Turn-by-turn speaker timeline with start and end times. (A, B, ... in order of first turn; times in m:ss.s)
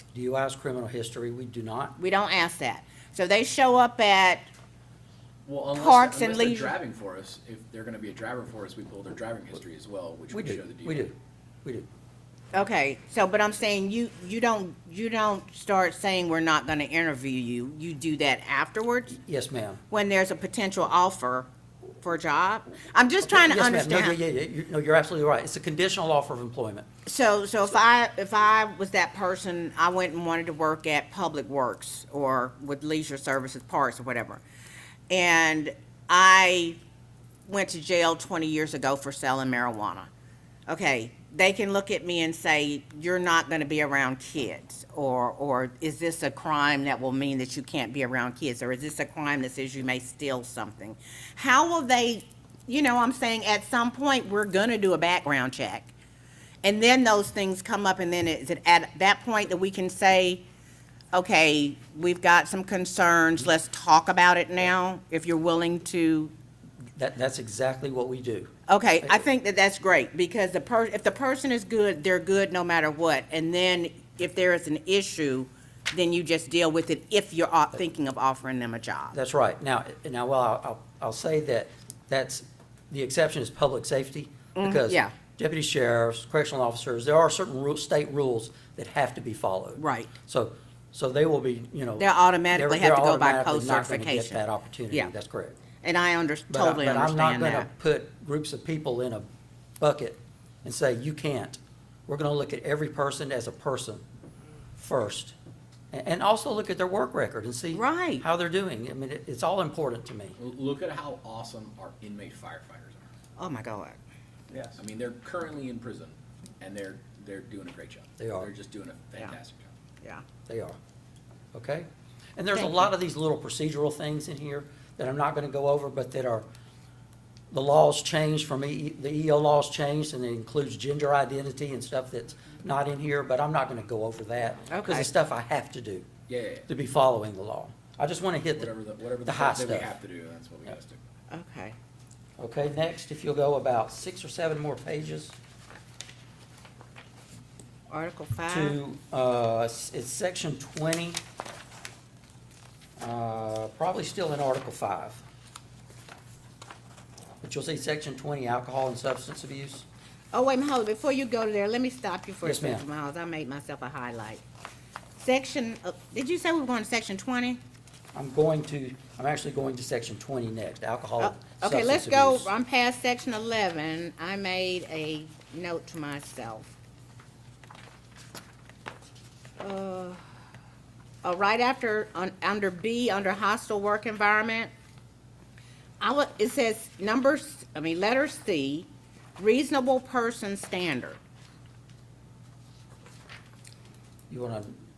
0:00.1-0:02.0 A
0:02.0-0:04.5 B
0:05.4-0:11.1 C
0:05.7-0:06.8 B
0:10.3-0:11.9 A
0:12.5-0:19.2 B
0:19.1-0:19.8 A
0:19.9-0:21.5 B
0:22.0-0:24.2 B
0:23.2-0:26.9 A
0:27.0-0:34.4 B
0:35.1-0:36.8 B
0:37.5-0:40.1 B
0:40.7-0:55.9 B
0:56.6-1:00.4 B
1:01.1-1:06.3 B
1:07.0-1:09.2 A
1:08.7-1:19.2 B
1:19.1-1:35.6 A
1:24.6-1:25.1 B
1:29.8-1:30.1 B
1:32.0-1:35.1 B
1:35.8-1:37.7 B
1:36.5-1:39.3 A
1:39.8-1:44.0 A
1:44.8-1:45.4 A
1:45.9-1:50.4 A
1:47.7-1:48.2 B
1:50.4-1:53.1 C
1:53.4-1:54.0 B
1:54.8-1:59.7 C
1:58.2-1:58.5 A
2:00.5-2:00.8 A
2:01.5-2:06.5 A
2:02.6-2:02.9 B
2:07.5-2:16.1 A
2:14.7-2:15.1 B
2:16.3-2:16.7 C
2:16.7-2:19.9 A
2:18.6-2:21.0 C
2:21.3-2:21.8 B
2:22.4-2:25.4 A
2:27.9-2:28.8 B
2:28.5-2:31.2 A
2:33.0-2:35.2 A
2:37.4-2:39.9 A
2:40.3-2:44.4 B
2:42.4-2:42.8 A
2:45.2-2:47.6 B
2:48.1-2:52.5 A
2:51.2-2:56.7 B
2:59.6-3:00.2 B
3:01.2-3:04.7 B
3:06.0-3:11.2 B
3:14.3-3:14.8 A